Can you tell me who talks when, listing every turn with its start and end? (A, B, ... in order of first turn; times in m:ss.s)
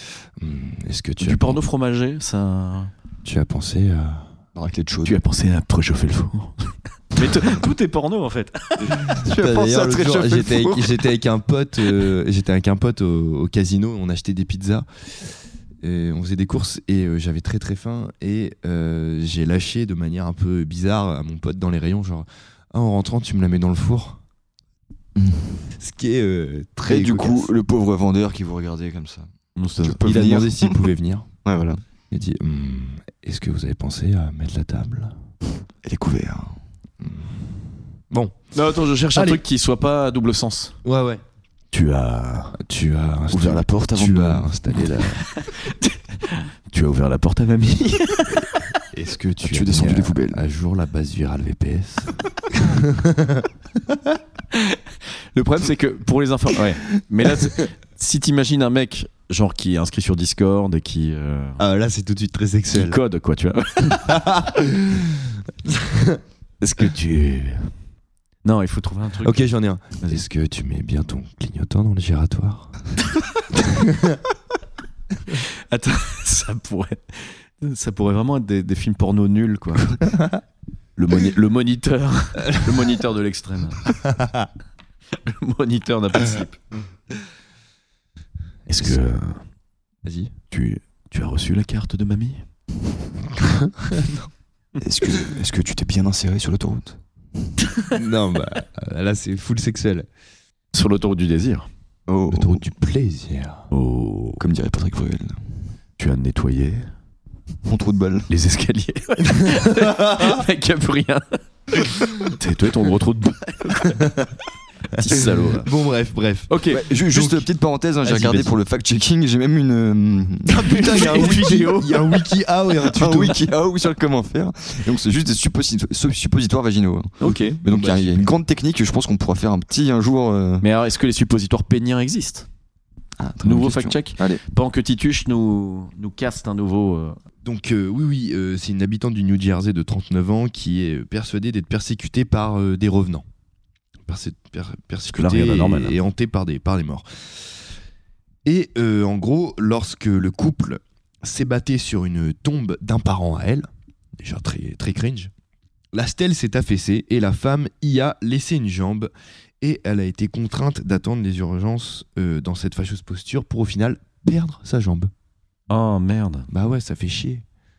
0:00.4-0:01.6 A
0:01.2-0:02.9 B
0:03.2-0:04.2 A
0:04.6-0:05.2 C
0:05.0-0:09.1 B
0:09.1-0:11.1 C
0:09.2-0:14.9 A
0:15.8-0:24.2 A
0:25.2-0:25.6 C
0:25.8-0:27.5 A
0:26.9-0:29.3 C
0:29.6-0:30.0 B
0:29.8-0:30.9 C
0:30.0-0:31.3 A
0:31.4-0:31.8 C
0:32.1-0:35.1 A
0:35.8-0:36.6 C
0:37.0-0:37.3 A
0:38.6-0:40.8 B
0:40.8-0:41.2 A
0:41.7-0:42.6 B
0:42.6-0:45.2 A
0:43.3-0:44.0 B
0:43.8-0:44.5 C
0:45.2-0:48.6 B
0:48.9-0:54.2 A
0:49.4-0:50.4 C
0:54.5-0:54.8 B
0:55.3-1:01.6 B
1:01.6-1:03.0 A
1:02.7-1:04.3 B
1:04.1-1:06.2 A
1:06.6-1:07.7 B
1:08.4-1:09.5 B
1:09.2-1:12.8 A
1:13.6-1:14.2 A
1:15.3-1:20.0 B
1:21.0-1:23.9 B
1:24.0-1:24.5 A
1:25.2-1:26.6 B
1:28.7-1:29.4 B
1:30.0-1:30.3 A
1:30.5-1:32.4 B
1:33.4-1:34.3 A
1:34.8-1:37.0 C
1:37.9-1:40.1 A
1:40.7-1:41.7 B
1:42.1-1:42.6 C
1:42.3-1:43.7 A
1:43.7-1:44.4 B
1:44.4-1:45.4 C
1:46.0-1:46.9 B
1:47.7-1:48.3 C
1:48.3-1:54.1 B
1:49.4-1:50.4 A
1:54.0-1:54.3 A
1:54.9-1:55.7 B
1:55.0-1:57.5 A
1:56.5-1:56.8 B
1:56.7-2:01.4 C
1:58.0-1:58.5 A
2:00.5-2:02.3 B
2:00.5-2:03.5 A
2:02.8-2:10.6 C
2:07.2-2:07.6 B
2:07.6-2:08.2 A
2:10.6-2:12.5 B
2:13.2-2:14.4 C
2:13.4-2:17.2 B
2:17.4-2:23.2 A
2:24.1-2:27.0 A
2:25.1-2:26.0 B
2:28.5-2:33.7 A
2:34.2-2:35.3 A
2:35.9-2:39.1 A
2:39.6-2:45.1 A
2:45.7-2:46.5 B
2:46.5-2:47.4 A